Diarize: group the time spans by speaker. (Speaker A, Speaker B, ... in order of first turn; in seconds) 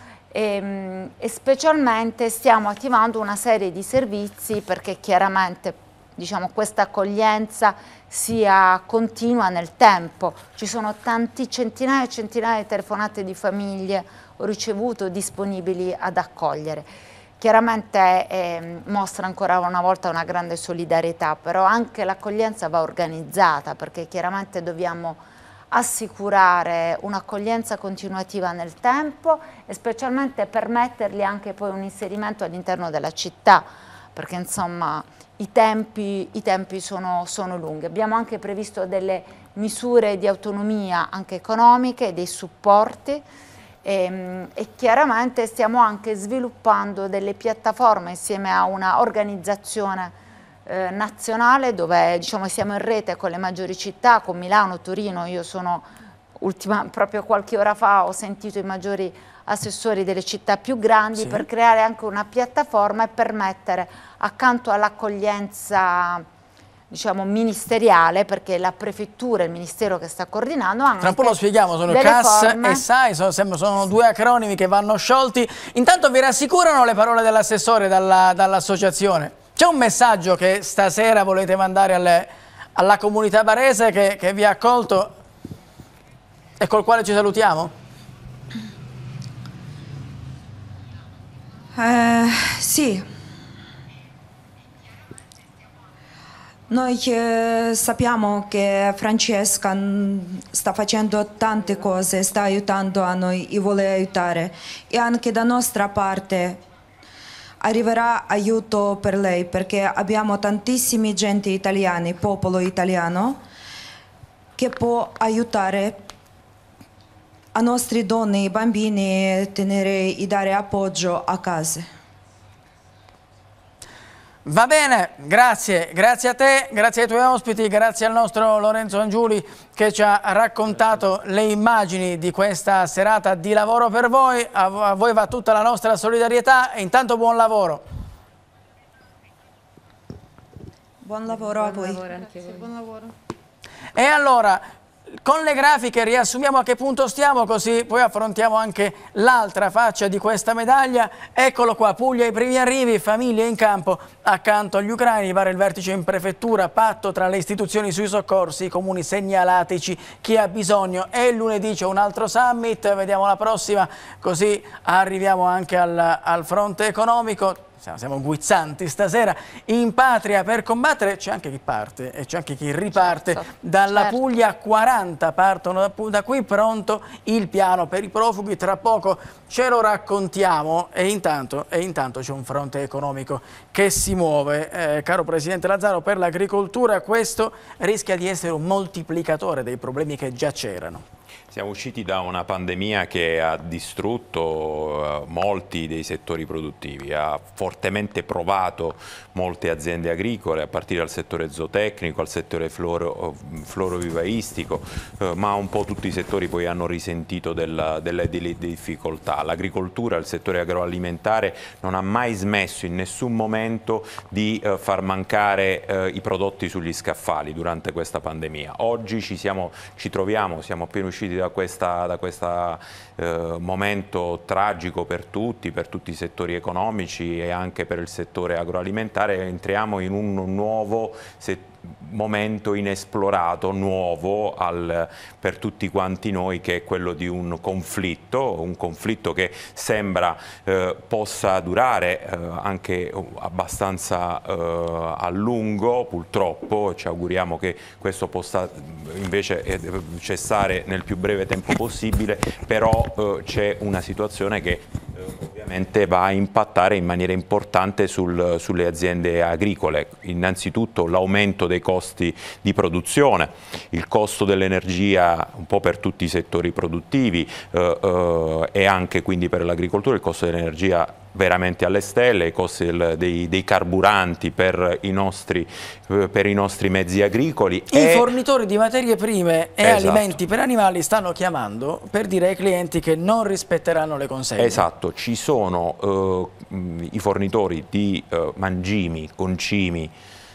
Speaker A: 0.3-16.9, 17.4-43.2, 43.8-50.1, 50.6-55.9, 56.4-66.2, 66.9-72.8, 142.2-142.6, 173.0-174.2
Speaker B: 61.2-61.4, 71.0-85.1, 86.6-87.7, 124.5-137.8, 143.9-144.6, 145.2-191.0, 277.9-284.8
Speaker C: 91.7-93.0, 96.7-106.6, 107.6-113.4, 114.6-116.0, 117.5-121.9, 141.0-142.0
Speaker D: 191.5-278.3, 279.8-280.4, 284.6-290.1